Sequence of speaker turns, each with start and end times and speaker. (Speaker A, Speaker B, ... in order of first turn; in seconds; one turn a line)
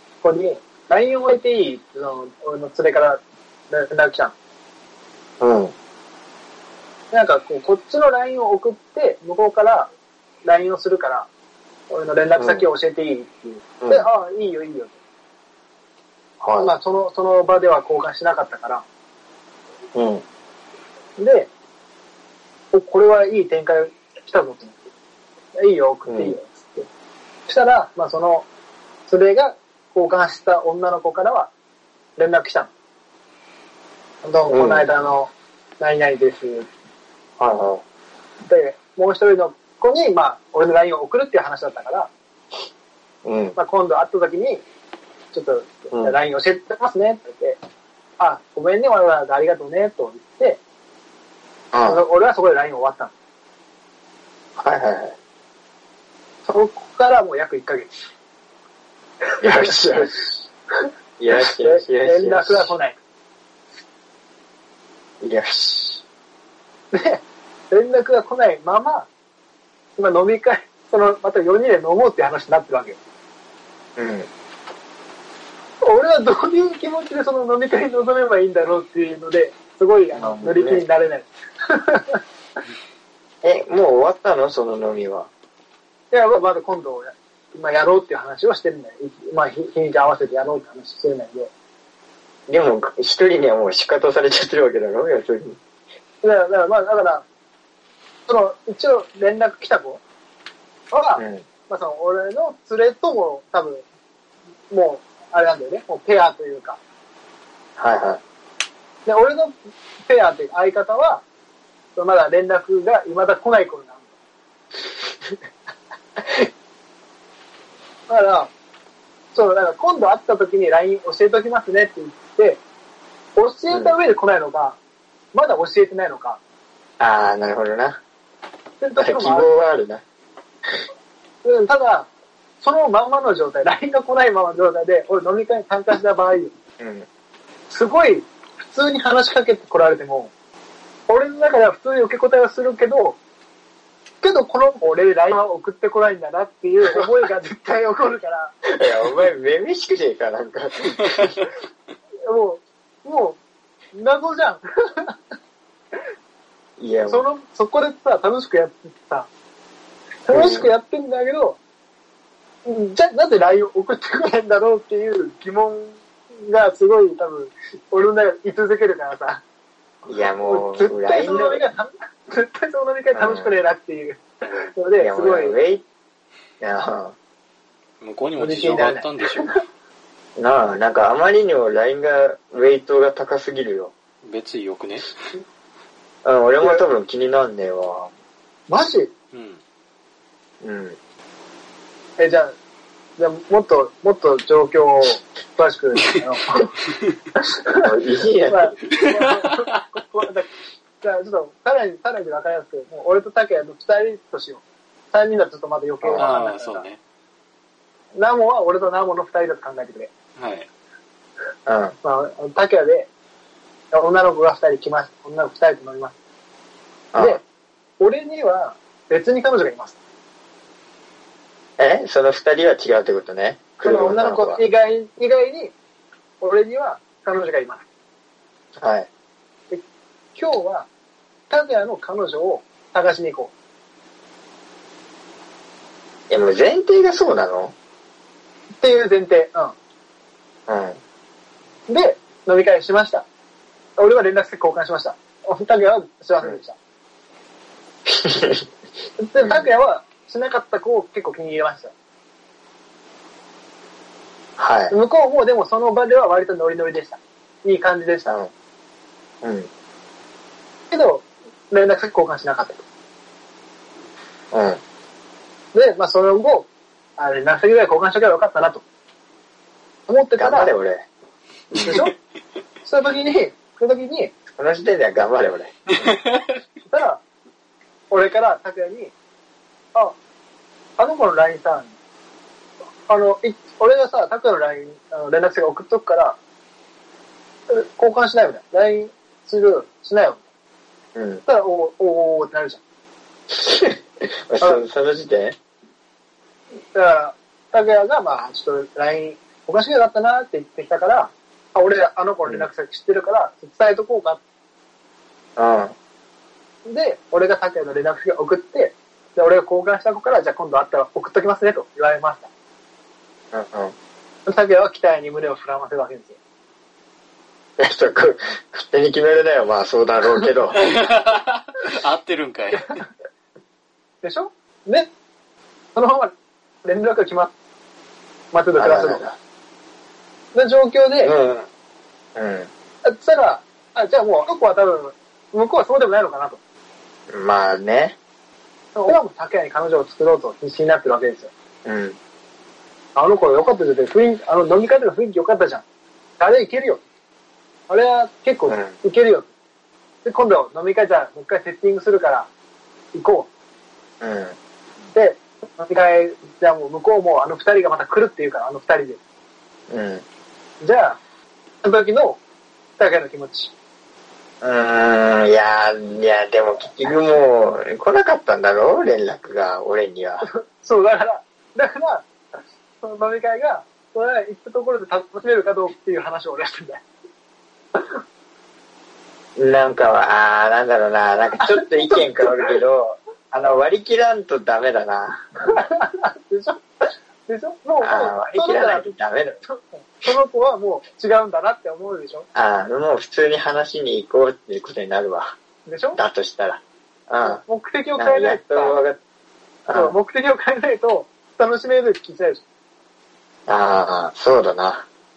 Speaker A: 0.2-4.3
Speaker B: 5.4-5.7
Speaker A: 7.1-9.9
Speaker A: 10.4-11.3
Speaker A: 11.9-15.0
Speaker B: 12.4-12.7
Speaker B: 13.8-14.1
Speaker B: 16.4-16.7
Speaker A: 16.6-18.8
Speaker B: 19.9-20.2
Speaker A: 21.2-21.5
Speaker A: 22.7-24.9
Speaker A: 25.5-26.9
Speaker B: 26.1-26.4
Speaker A: 27.4-28.4
Speaker A: 29.1-31.5
Speaker A: 32.2-32.7
Speaker A: 34.2-36.7
Speaker B: 34.5-34.9
Speaker B: 37.4-37.8
Speaker A: 38.5-42.1
Speaker B: 43.2-43.5
Speaker A: 43.5-44.6
Speaker A: 45.3-47.6
Speaker A: 48.2-50.6
Speaker B: 51.7-52.0
Speaker A: 51.8-53.1
Speaker B: 54.6-55.1
Speaker A: 56.4-58.0
Speaker B: 59.4-60.2
Speaker A: 59.4-60.3
Speaker B: 61.2-62.7
Speaker A: 61.4-63.0
Speaker B: 65.2-66.0
Speaker A: 66.9-69.1
Speaker A: 70.0-73.0
Speaker B: 74.0-74.3
Speaker A: 75.8-82.2
Speaker B: 80.1-80.8
Speaker B: 83.4-85.3
Speaker A: 86.1-91.5
Speaker B: 92.5-95.6
Speaker A: 96.2-97.2
Speaker A: 98.3-100.0
Speaker A: 100.9-103.8
Speaker B: 101.2-101.5
Speaker A: 104.7-106.8
Speaker B: 107.8-108.2
Speaker A: 109.0-109.5
Speaker A: 110.0-111.2
Speaker A: 111.9-114.0
Speaker B: 116.2-116.5
Speaker A: 118.1-118.5
Speaker A: 119.3-122.6
Speaker A: 123.3-124.8
Speaker B: 123.7-124.0
Speaker A: 125.3-126.4
Speaker B: 127.0-128.0
Speaker A: 128.8-129.5
Speaker B: 129.0-130.0
Speaker A: 131.4-132.1
Speaker A: 132.6-136.5
Speaker B: 136.8-137.1
Speaker A: 137.7-140.3
Speaker A: 141.1-143.2
Speaker A: 144.2-148.5
Speaker B: 148.7-151.4
Speaker A: 152.3-153.4
Speaker A: 153.9-155.1
Speaker B: 156.8-157.2
Speaker A: 157.1-159.3
Speaker A: 160.2-161.6
Speaker B: 160.3-160.7
Speaker A: 162.6-169.4
Speaker B: 170.1-171.6
Speaker A: 170.4-175.6
Speaker B: 173.1-173.5
Speaker B: 174.9-175.8
Speaker B: 176.6-177.1
Speaker C: 178.0-179.6
Speaker A: 178.4-179.5
Speaker B: 180.4-183.9
Speaker C: 184.2-185.1
Speaker B: 186.2-188.1
Speaker A: 188.7-189.1
Speaker C: 189.3-189.6
Speaker B: 190.6-191.0
Speaker A: 192.2-192.5
Speaker A: 193.2-196.7
Speaker A: 197.3-197.8
Speaker B: 197.8-198.8
Speaker A: 198.5-200.5
Speaker C: 198.9-199.7
Speaker A: 201.0-206.8
Speaker B: 206.0-206.3
Speaker C: 206.2-207.0
Speaker A: 208.1-210.1
Speaker C: 210.4-210.7
Speaker B: 211.7-211.9
Speaker A: 212.0-213.1
Speaker A: 213.9-216.1
Speaker B: 217.1-217.4
Speaker A: 217.2-217.4
Speaker A: 218.0-220.0
Speaker B: 221.8-224.6
Speaker A: 223.8-225.7
Speaker A: 226.4-227.8
Speaker B: 228.8-229.1
Speaker A: 230.3-230.9
Speaker A: 231.5-233.5
Speaker B: 236.3-237.7
Speaker A: 238.8-239.7
Speaker B: 240.7-241.0
Speaker A: 241.9-243.2
Speaker A: 244.0-246.8
Speaker B: 248.1-248.6
Speaker A: 249.2-251.9
Speaker B: 249.4-249.7
Speaker B: 254.6-254.9
Speaker A: 254.9-258.2
Speaker B: 258.2-258.5
Speaker B: 259.4-259.7
Speaker A: 260.9-262.8
Speaker B: 264.5-264.8
Speaker A: 265.7-268.8
Speaker A: 270.1-270.7
Speaker B: 270.4-271.1
Speaker A: 271.7-272.1
Speaker A: 272.8-274.3
Speaker B: 274.6-275.7
Speaker C: 276.0-276.5
Speaker A: 276.9-277.2
Speaker A: 278.1-279.1
Speaker A: 281.0-281.9
Speaker A: 283.1-286.4
Speaker A: 287.7-290.4
Speaker B: 291.1-291.4
Speaker A: 291.4-292.8
Speaker B: 293.5-295.6
Speaker A: 296.9-304.4
Speaker B: 305.6-305.9
Speaker A: 306.8-312.5
Speaker B: 313.5-313.9
Speaker A: 314.4-316.4
Speaker B: 317.8-320.8
Speaker C: 320.8-322.9
Speaker A: 324.2-325.1
Speaker A: 325.9-326.3
Speaker A: 326.8-327.5
Speaker A: 328.5-329.2
Speaker B: 328.8-329.4
Speaker A: 330.5-331.3
Speaker B: 331.2-331.7
Speaker B: 332.4-332.7
Speaker A: 333.0-336.6
Speaker B: 337.3-338.2
Speaker A: 338.9-341.5
Speaker B: 341.8-342.2
Speaker A: 343.1-345.8
Speaker A: 346.4-347.0
Speaker A: 347.9-349.5
Speaker B: 348.7-348.9
Speaker A: 350.2-352.5
Speaker A: 353.1-353.5
Speaker B: 354.2-354.6
Speaker A: 355.1-359.2
Speaker B: 359.9-360.2
Speaker A: 360.8-361.2
Speaker A: 361.8-362.4
Speaker A: 363.0-363.7
Speaker B: 364.6-370.5
Speaker A: 370.5-372.3
Speaker A: 373.0-377.0
Speaker B: 379.6-385.5
Speaker A: 381.6-382.7
Speaker A: 385.6-386.8
Speaker A: 387.4-392.5
Speaker B: 388.0-389.6
Speaker B: 392.5-395.5
Speaker A: 395.9-396.2
Speaker B: 396.1-397.6
Speaker A: 397.4-399.0
Speaker B: 398.1-399.2
Speaker B: 399.9-400.1
Speaker A: 399.9-402.6
Speaker B: 403.7-405.1